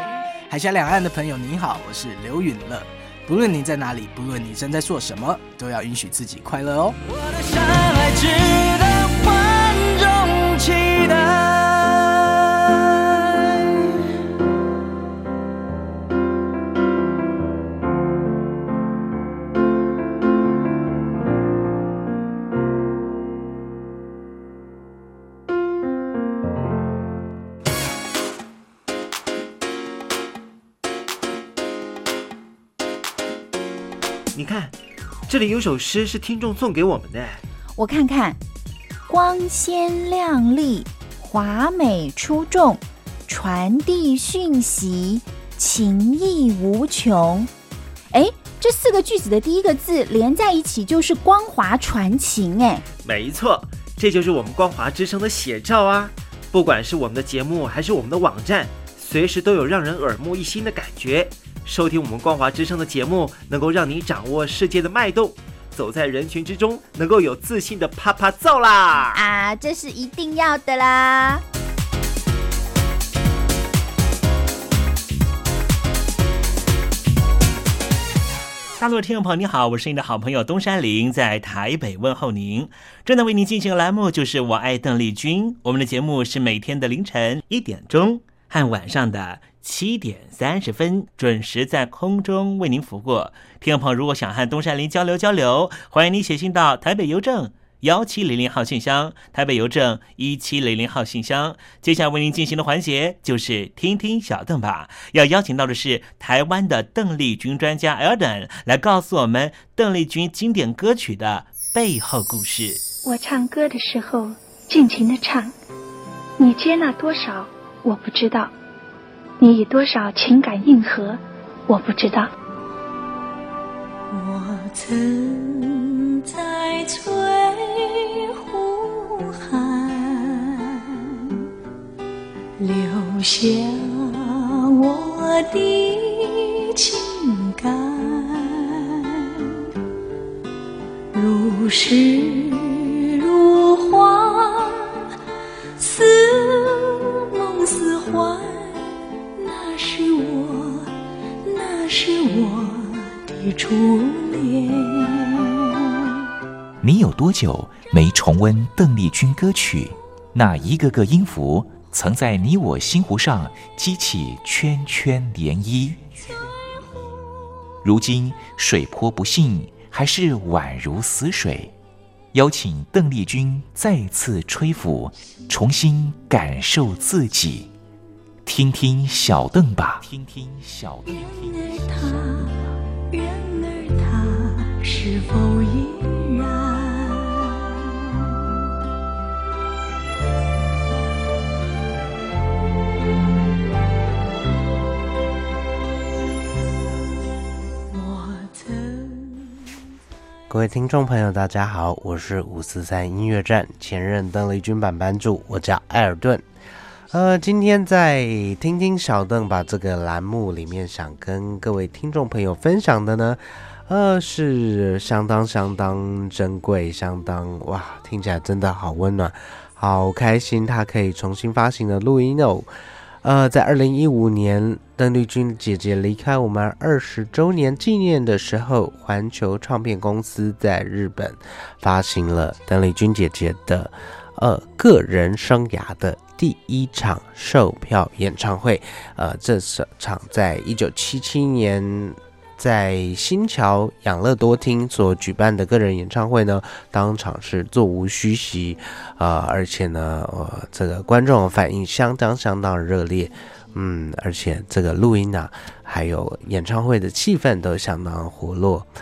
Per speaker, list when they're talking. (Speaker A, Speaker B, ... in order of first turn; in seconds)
Speaker A: 0.5-13.7
Speaker B: 34.3-34.8, 35.3-37.4, 53.0-69.2
Speaker C: 37.8-38.4, 39.1-47.5, 48.1-52.8, 69.1-71.4
Speaker D: 78.8-112.8
Speaker E: 113.0-115.5, 116.4-118.5, 119.4-122.3
Speaker F: 124.1-131.3, 132.6-139.5, 141.1-145.1, 145.8-150.9, 151.4-155.8, 181.1-187.8, 197.9-199.7
Speaker G: 156.8-166.4, 167.8-171.7, 172.3-177.7, 178.4-182.5
Speaker H: 200.5-206.4, 207.1-222.7, 223.2-258.9